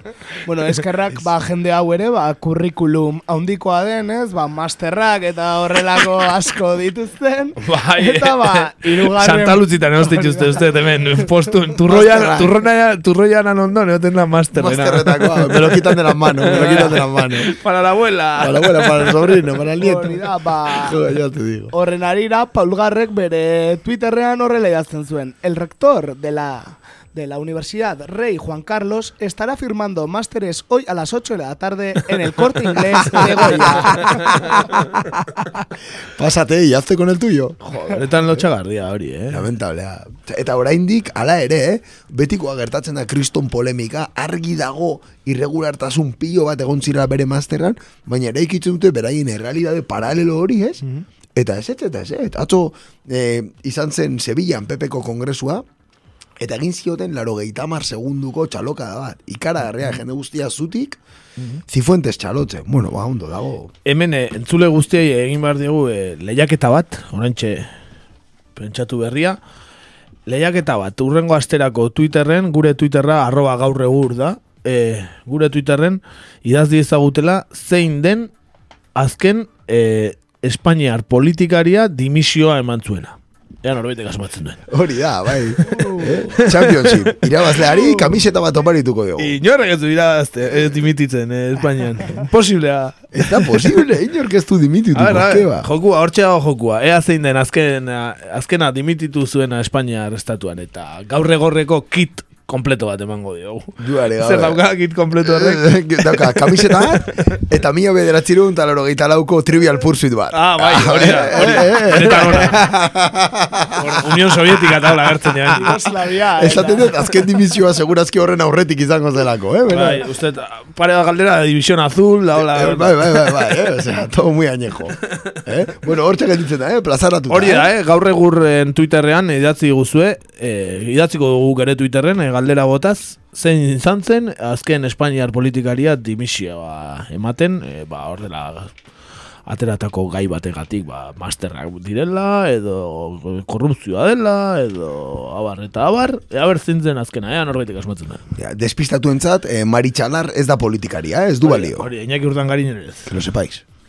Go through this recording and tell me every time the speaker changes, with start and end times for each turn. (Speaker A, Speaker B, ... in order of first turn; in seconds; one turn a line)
Speaker A: 0.5-10.7
Speaker B: 7.6-19.4
Speaker C: 11.9-12.6
Speaker C: 14.5-17.5
Speaker C: 18.4-20.1
Speaker A: 19.8-21.0
Speaker C: 20.7-21.7
Speaker A: 21.7-34.4
Speaker C: 33.1-37.6
Speaker B: 33.2-34.1
Speaker B: 37.6-39.5
Speaker C: 39.3-50.8
Speaker C: 51.4-55.6
Speaker C: 56.4-61.0
Speaker C: 61.7-63.7
Speaker B: 63.9-67.7
Speaker B: 68.6-69.4
Speaker B: 70.3-78.3
Speaker B: 79.0-84.7
Speaker C: 84.7-89.4
Speaker A: 85.7-86.3
Speaker B: 86.3-87.6
Speaker A: 87.8-88.1
Speaker B: 89.2-93.8
Speaker C: 93.1-95.7
Speaker B: 95.0-107.3
Speaker C: 103.8-104.6
Speaker C: 105.2-114.9
Speaker B: 110.3-112.6
Speaker B: 113.8-115.8
Speaker A: 115.5-117.0
Speaker C: 116.4-120.0
Speaker B: 119.7-123.4
Speaker C: 122.3-127.7
Speaker B: 127.3-138.8
Speaker B: 139.5-148.2
Speaker C: 148.4-151.9
Speaker B: 151.4-153.1
Speaker C: 153.1-153.6